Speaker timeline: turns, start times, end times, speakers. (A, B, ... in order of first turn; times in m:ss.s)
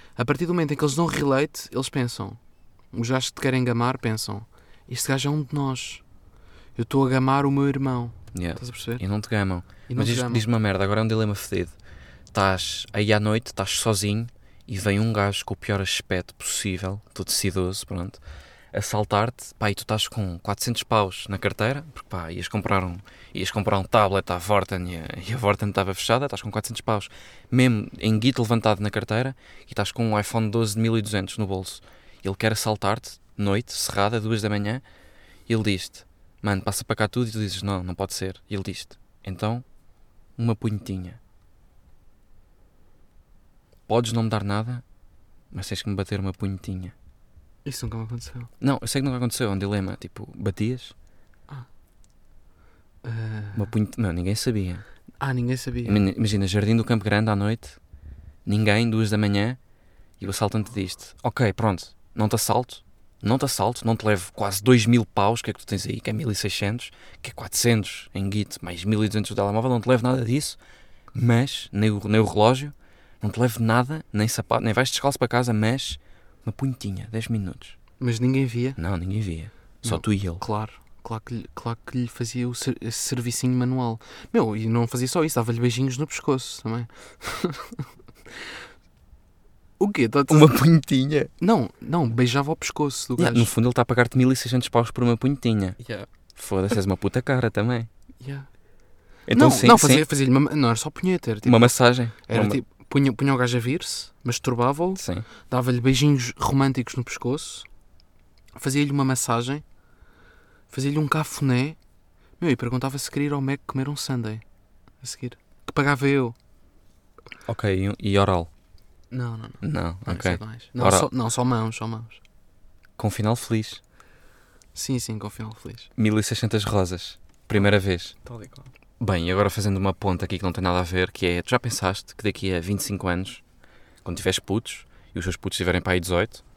0:00.2-0:02.4 A
0:02.9-0:06.0 A
0:06.8-0:09.0 A
0:08.3-0:11.8 B
0:09.9-0:10.4 A
0:12.3-0:18.2 B
0:18.7-0:34.8 B
0:35.5-0:39.6 B
0:40.4-0:41.2 B
0:43.9-0:44.8 B
0:45.5-0:46.9 B
0:47.6-0:48.5 A
0:48.6-0:50.9 B
0:53.0-0:53.7 A
0:53.6-0:54.8 B
0:55.2-0:56.0 A
0:55.8-0:57.8 B
0:58.4-0:59.6 B
1:00.2-1:10.6 B
1:11.1-1:17.8 B
1:18.0-1:18.8 A
1:18.8-1:20.4 B
1:19.8-1:28.5 A
1:29.8-1:30.6 A
1:30.3-1:31.3 B
1:31.4-1:33.5 A
1:33.2-1:35.8 B
1:35.8-1:36.1 A
1:36.4-1:37.9 B
1:38.2-1:38.5 A
1:39.3-1:40.1 B
1:39.3-1:47.7 A
1:41.4-1:42.6 B
1:45.0-1:45.3 B
1:48.6-1:49.6 A
1:50.7-1:51.8 A
1:52.4-1:54.4 A
1:55.0-1:56.4 A
1:57.5-1:58.5 B
1:59.1-2:02.2 A
1:59.6-2:01.1 B
2:03.0-2:03.8 B
2:04.8-2:05.9 A
2:06.0-2:08.2 B
2:08.2-2:08.7 A
2:09.0-2:13.4 B
2:14.0-2:16.4 B